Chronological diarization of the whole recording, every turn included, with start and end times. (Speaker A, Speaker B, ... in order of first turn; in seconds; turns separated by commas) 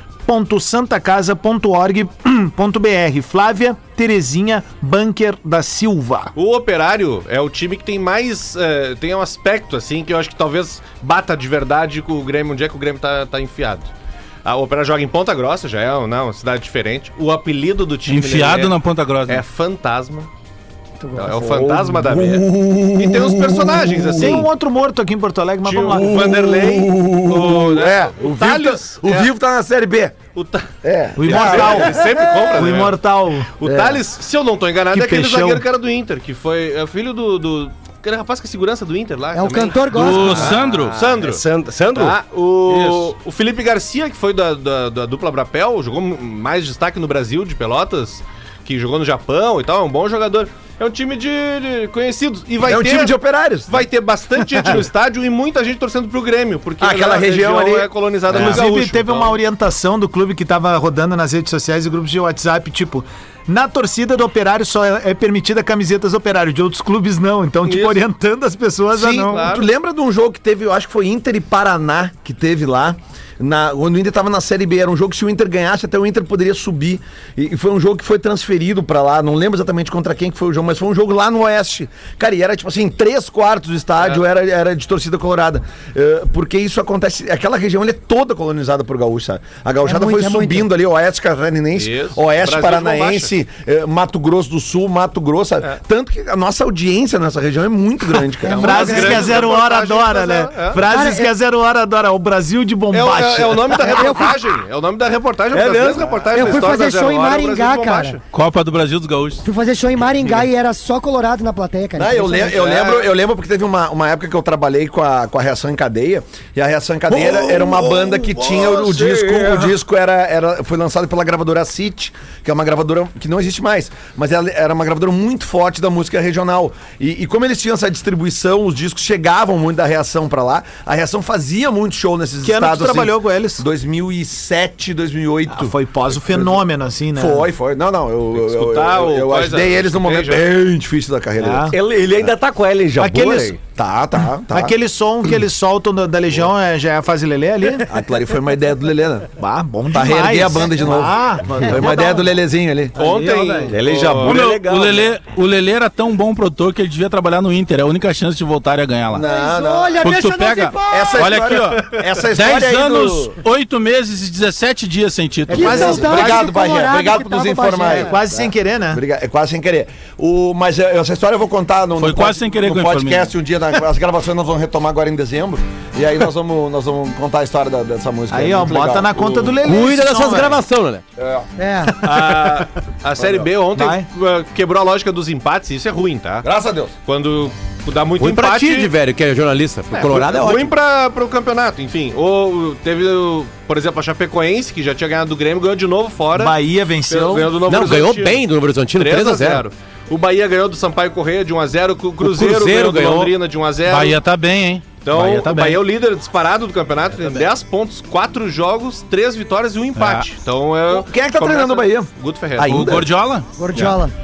Speaker A: 0.3-6.3, Speaker B: 6.4-13.9, Speaker B: 14.4-18.8, Speaker C: 18.1-19.4, Speaker B: 19.3-20.3, Speaker B: 21.2-24.5, Speaker D: 21.2-24.4, Speaker A: 24.2-26.2, Speaker B: 25.6-29.3, Speaker D: 25.9-30.2, Speaker B: 30.3-33.0, Speaker D: 30.8-32.7, Speaker A: 31.2-33.5, Speaker B: 33.5-41.4, Speaker D: 33.6-34.0, Speaker A: 34.9-35.7, Speaker E: 39.3-40.6, Speaker C: 39.9-41.0, Speaker F: 40.6-42.2, Speaker B: 41.9-59.4, Speaker D: 52.6-53.9, Speaker D: 56.8-58.7, Speaker A: 58.3-69.5, Speaker B: 67.6-68.0, Speaker D: 68.9-99.4, Speaker B: 69.2-69.7, Speaker E: 89.8-90.7, Speaker B: 91.7-93.3, Speaker E: 98.4-99.3, Speaker B: 98.5-100.8, Speaker A: 98.6-103.8, Speaker E: 100.8-101.3, Speaker B: 102.9-108.2, Speaker E: 103.8-104.3, Speaker D: 105.5-106.7, Speaker E: 106.3-108.2, Speaker C: 108.3-109.5, Speaker E: 109.4-112.6, Speaker D: 112.0-142.3, Speaker B: 112.6-113.1, Speaker F: 117.1-119.7, Speaker A: 132.4-133.6, Speaker A: 135.5-137.5, Speaker B: 138.3-140.4, Speaker A: 141.4-141.7, Speaker F: 141.7-143.6, Speaker A: 143.0-143.6, Speaker D: 143.7-144.8, Speaker A: 144.4-147.9, Speaker D: 147.9-149.3, Speaker A: 149.4-152.2, Speaker D: 149.9-153.0, Speaker A: 153.0-153.8, Speaker B: 153.0-154.4, Speaker F: 153.6-155.1, Speaker C: 154.2-159.3, Speaker D: 159.1-160.1, Speaker E: 159.2-161.3, Speaker C: 160.0-166.2, Speaker D: 160.9-163.4, Speaker D: 165.5-179.6, Speaker E: 165.5-168.1, Speaker A: 165.5-166.5, Speaker A: 167.8-169.0, Speaker C: 172.0-173.3, Speaker A: 178.3-180.6, Speaker G: 179.6-181.0, Speaker D: 181.2-181.4, Speaker E: 181.6-181.9, Speaker B: 182.0-186.5, Speaker D: 183.2-183.5, Speaker A: 183.7-184.1, Speaker D: 186.4-186.9, Speaker B: 187.0-188.9, Speaker G: 188.2-190.7, Speaker B: 189.9-204.2, Speaker A: 196.3-197.6, Speaker G: 197.6-199.7, Speaker G: 202.2-203.3, Speaker C: 203.9-205.8, Speaker B: 205.0-212.9, Speaker C: 209.9-210.3, Speaker D: 210.9-213.1, Speaker C: 212.7-213.4, Speaker E: 213.6-214.1